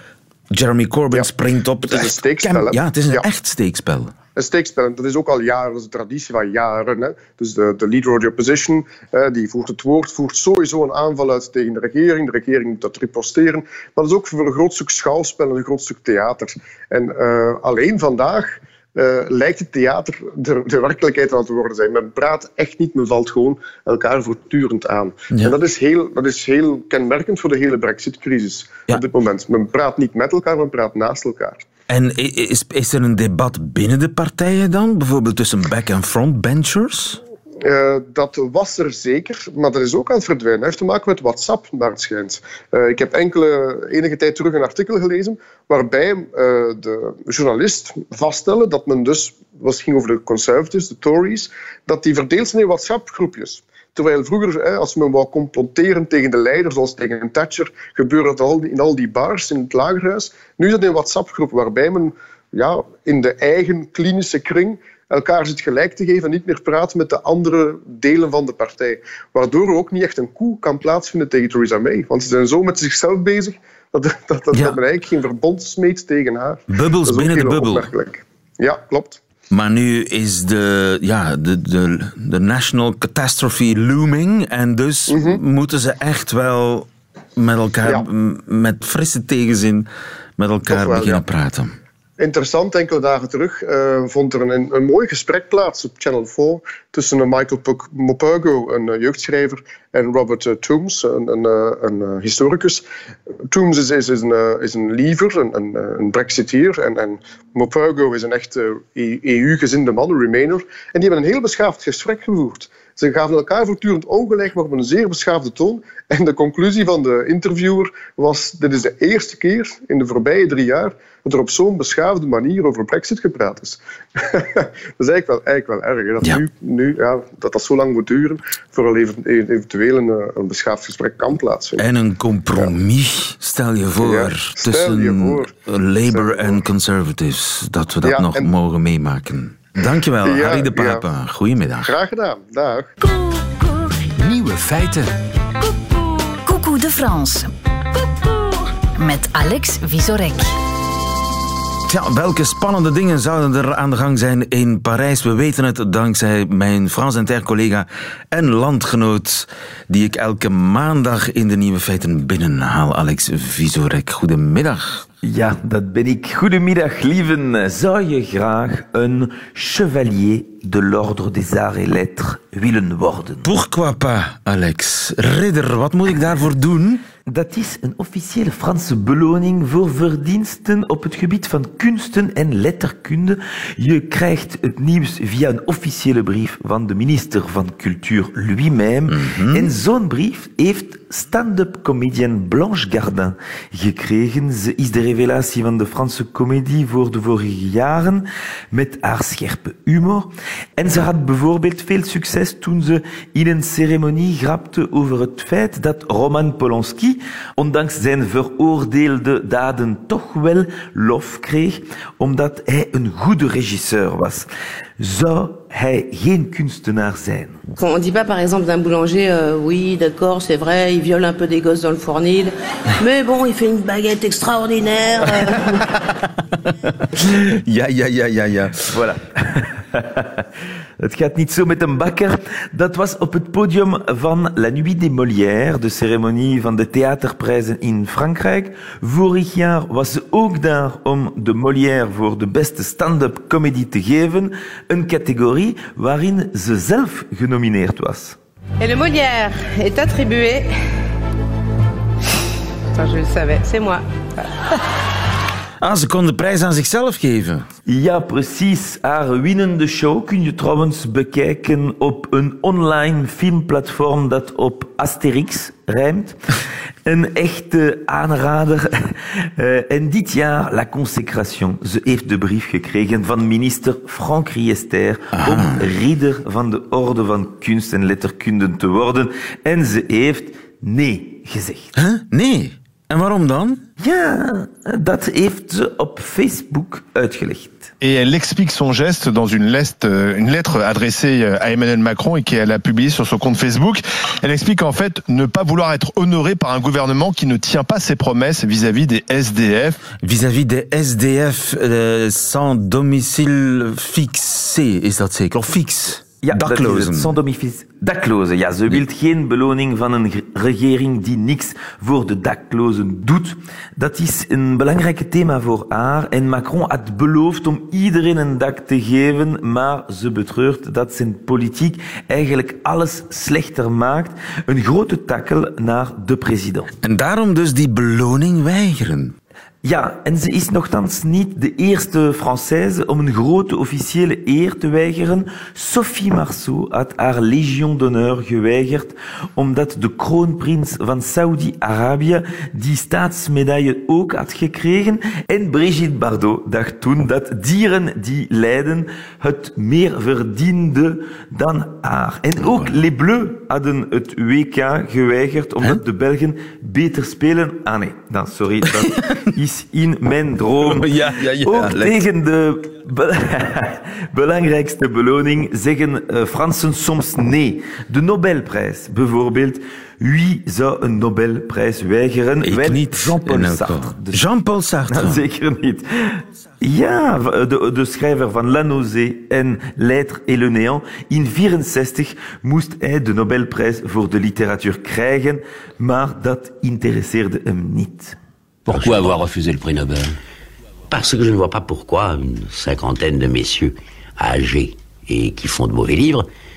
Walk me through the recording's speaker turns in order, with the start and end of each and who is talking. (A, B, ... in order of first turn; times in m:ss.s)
0:00.5-0:04.1 A
0:01.8-0:03.3 B
0:04.4-0:31.6 B
0:31.9-0:37.2 A
0:37.6-1:19.2 B
1:14.5-1:14.8 A
1:16.7-1:17.9 A
1:19.5-1:31.8 A
1:25.1-1:25.4 B
1:30.7-1:31.2 B
1:32.2-1:42.8 B
1:43.5-2:11.8 B
2:11.8-2:22.0 A
2:14.0-2:15.5 B
2:16.1-2:16.6 B
2:18.0-2:18.5 B
2:20.2-2:21.1 B
2:21.8-2:22.9 B
2:26.4-2:27.5 C
2:29.0-2:30.5 C
2:31.9-2:45.1 A
2:45.2-2:53.5 D
2:53.4-2:57.0 A
2:57.3-3:34.5 D
3:09.1-3:09.7 A
3:35.0-3:37.6 D
3:37.8-3:45.9 E
3:46.7-3:48.8 A
3:48.9-3:50.4 D
3:51.0-4:08.4 D
4:08.8-4:10.7 E
4:12.9-4:14.0 E
4:15.8-4:17.7 A
4:17.9-4:41.9 D
4:35.4-4:35.9 A
4:42.0-4:43.8 A
4:44.0-4:47.9 D
4:48.0-5:00.0 F
5:00.2-5:07.4 A
5:06.4-5:26.9 D
5:27.0-5:29.4 A
5:29.8-6:14.4 D
5:52.6-5:53.0 A
6:00.8-6:02.2 A
6:12.6-6:15.4 A
6:15.1-6:28.4 D
6:28.9-6:30.3 G
6:31.1-6:36.5 G